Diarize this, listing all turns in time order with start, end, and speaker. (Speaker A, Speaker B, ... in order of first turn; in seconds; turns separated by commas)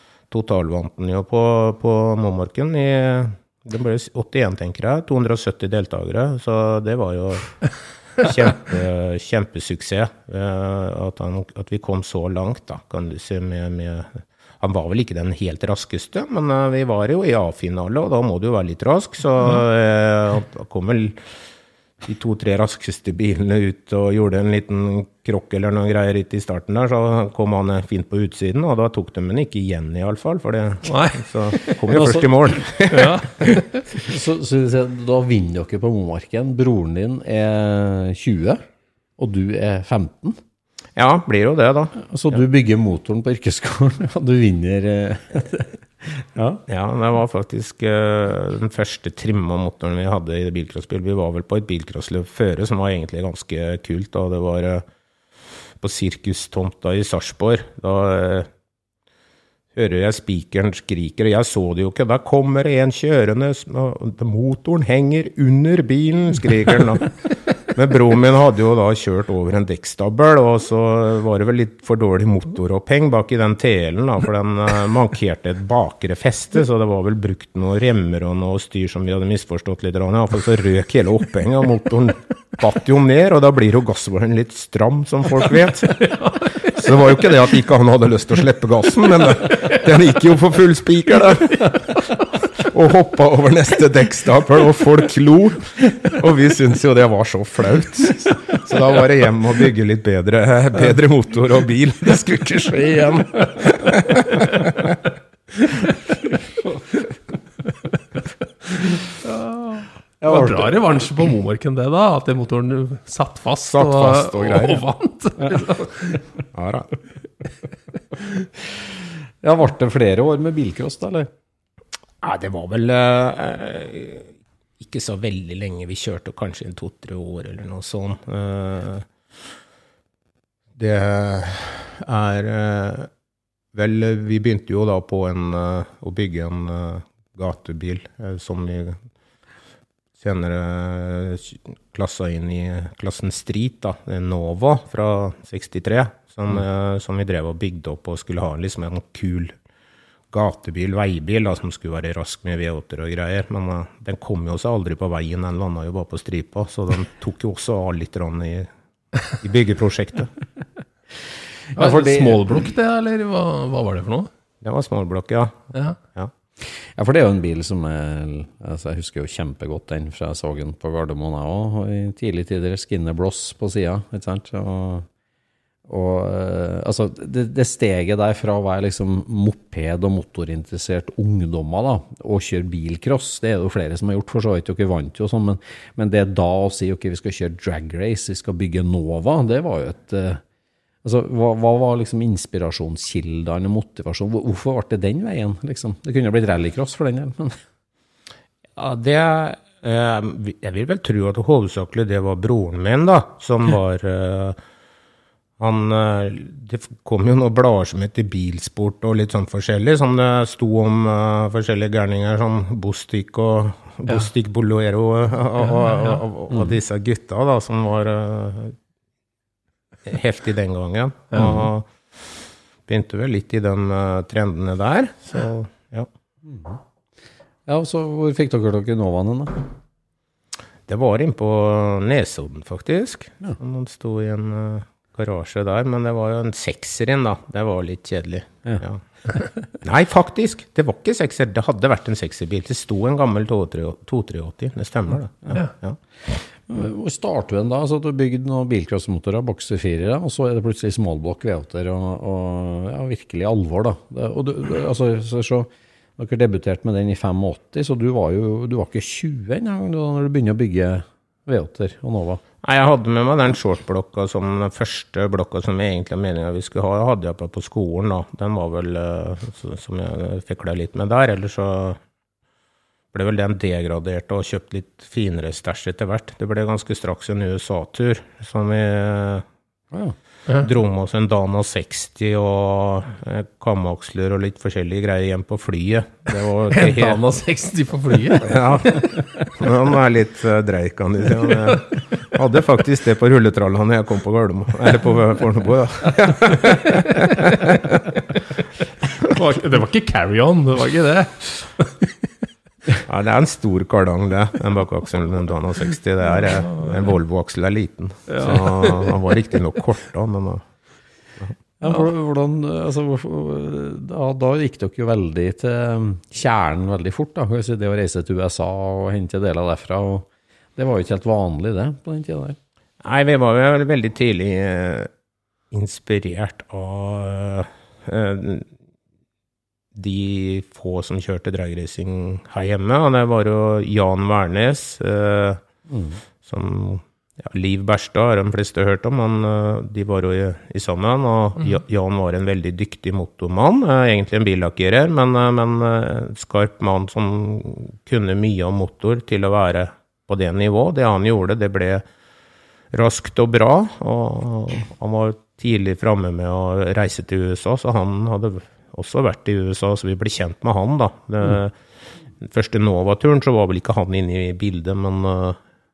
Speaker A: 0.3-21.2, Speaker A: 22.0-33.6, Speaker B: 30.8-31.2, Speaker C: 31.9-32.5, Speaker B: 32.9-33.6, Speaker C: 34.0-38.6, Speaker C: 39.2-40.4, Speaker A: 41.0-42.4, Speaker C: 42.0-46.6, Speaker A: 46.7-54.8, Speaker A: 55.8-58.5, Speaker A: 59.7-104.9, Speaker B: 109.3-116.2, Speaker C: 110.2-111.0, Speaker A: 113.7-114.8, Speaker A: 116.5-116.9, Speaker C: 118.8-121.3, Speaker A: 122.2-129.1, Speaker A: 130.8-133.1, Speaker A: 133.7-139.0, Speaker A: 140.2-149.5, Speaker A: 150.3-160.3, Speaker C: 161.7-162.7, Speaker B: 161.8-164.3, Speaker A: 164.6-166.3, Speaker C: 166.6-175.1, Speaker C: 175.9-190.4, Speaker C: 191.0-197.6, Speaker A: 198.8-204.6, Speaker A: 205.6-218.7, Speaker B: 215.6-216.2, Speaker C: 216.5-216.8, Speaker A: 220.1-221.9, Speaker B: 221.3-221.6, Speaker A: 222.9-226.1, Speaker C: 226.4-226.8, Speaker C: 227.7-229.7, Speaker A: 230.9-239.0, Speaker A: 239.8-246.0, Speaker C: 246.7-262.4, Speaker A: 262.6-272.0, Speaker A: 273.1-279.4, Speaker A: 280.6-287.2, Speaker B: 286.7-289.0, Speaker A: 288.4-298.1, Speaker B: 299.2-302.1, Speaker A: 303.0-310.6, Speaker B: 306.4-306.9, Speaker B: 308.3-309.2, Speaker C: 311.8-322.6, Speaker A: 323.0-325.1, Speaker A: 325.7-328.7, Speaker A: 329.9-335.6, Speaker C: 335.9-336.2, Speaker A: 336.4-352.0, Speaker A: 352.9-361.7, Speaker A: 362.4-365.6